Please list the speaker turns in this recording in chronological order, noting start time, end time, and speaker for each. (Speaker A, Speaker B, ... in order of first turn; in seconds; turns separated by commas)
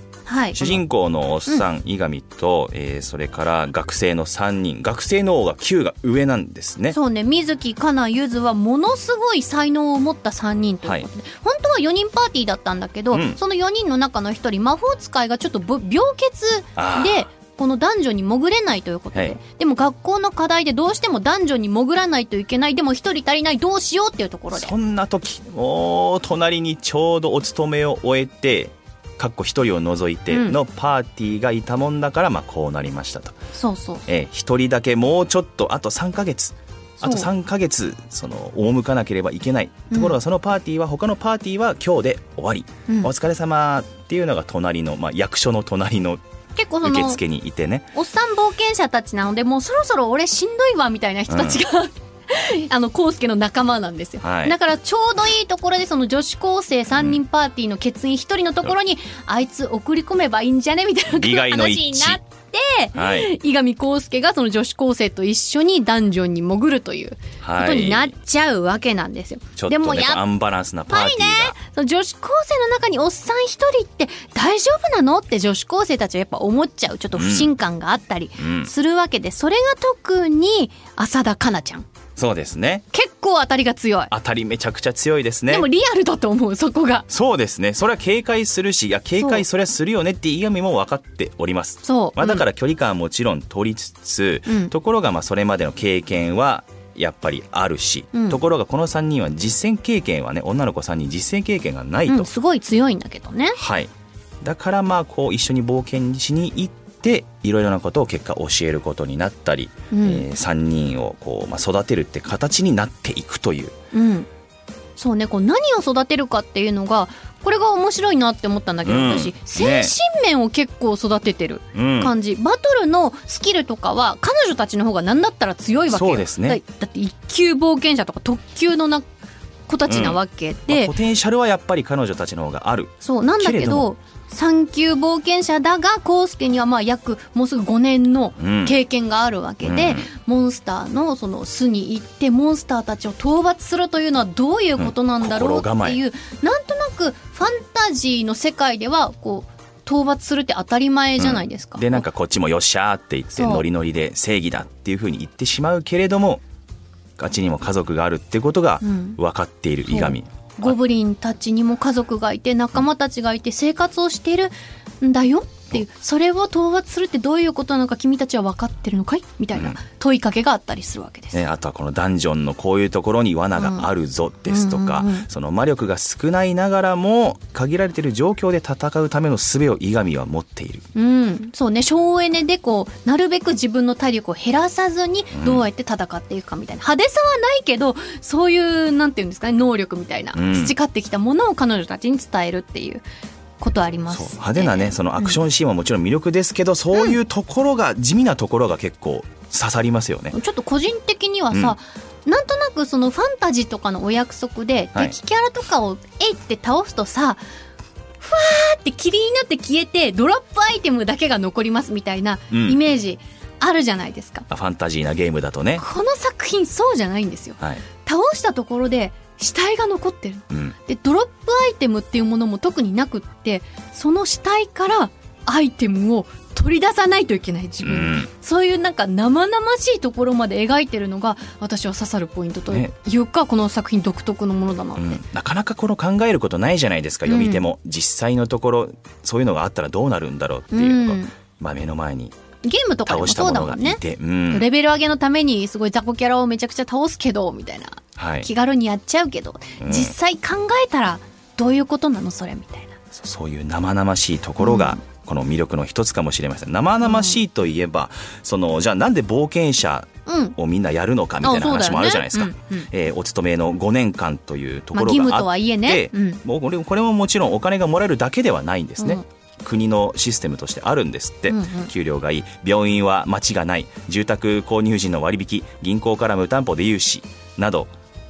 Speaker A: 0.3-0.8, Speaker B: 0.5-7.0, Speaker A: 6.9-24.7, Speaker B: 13.1-13.4, Speaker B: 16.8-17.3, Speaker B: 24.5-33.4, Speaker A: 30.3-30.6, Speaker A: 33.5-34.0, Speaker B: 34.1-46.2, Speaker A: 37.0-37.3, Speaker A: 46.5-47.2, Speaker B: 46.8-47.9, Speaker A: 47.9-70.2, Speaker B: 51.3-51.6, Speaker B: 54.2-54.5, Speaker B: 56.9-57.2, Speaker B: 61.1-62.2, Speaker B: 63.0-63.3, Speaker B: 67.4-68.1, Speaker B: 69.6-71.6, Speaker A: 70.9-81.8, Speaker B: 77.1-77.5, Speaker B: 78.4-78.7, Speaker B: 82.2-82.8, Speaker A: 82.9-84.1, Speaker B: 84.1-85.7, Speaker A: 85.5-87.1, Speaker B: 87.1-102.3, Speaker A: 91.8-92.5, Speaker A: 98.1-98.4, Speaker A: 102.1-103.6, Speaker B: 103.5-103.9, Speaker B: 104.4-113.7, Speaker A: 109.9-110.3, Speaker A: 113.9-114.3, Speaker A: 115.0-129.1, Speaker B: 118.9-119.9, Speaker B: 121.7-122.1, Speaker B: 125.9-126.6, Speaker A: 129.7-130.9, Speaker B: 129.9-133.9, Speaker A: 133.0-152.0, Speaker B: 138.4-138.7, Speaker B: 139.6-140.1, Speaker B: 144.8-146.0, Speaker B: 151.2-156.4, Speaker A: 153.3-153.7, Speaker B: 157.2-160.8, Speaker A: 158.8-159.2, Speaker A: 159.9-171.4, Speaker B: 171.3-180.8, Speaker A: 173.6-173.9, Speaker A: 174.5-175.2, Speaker A: 180.9-193.0, Speaker B: 185.3-185.7, Speaker B: 190.3-190.7, Speaker A: 193.6-195.4, Speaker B: 194.1-200.3, Speaker A: 200.3-207.4, Speaker A: 208.2-214.5, Speaker B: 212.5-212.8, Speaker B: 214.5-215.8, Speaker A: 215.8-235.2, Speaker B: 220.5-220.8, Speaker B: 227.8-228.3, Speaker B: 235.0-242.3, Speaker A: 237.3-237.6, Speaker A: 240.7-241.3, Speaker A: 242.6-253.0, Speaker B: 243.1-244.7, Speaker B: 248.2-248.5, Speaker B: 249.8-250.1, Speaker B: 253.1-277.9, Speaker A: 254.6-255.0, Speaker A: 257.0-257.4, Speaker A: 260.3-260.5, Speaker A: 261.4-262.9, Speaker A: 264.9-266.4, Speaker A: 271.5-271.9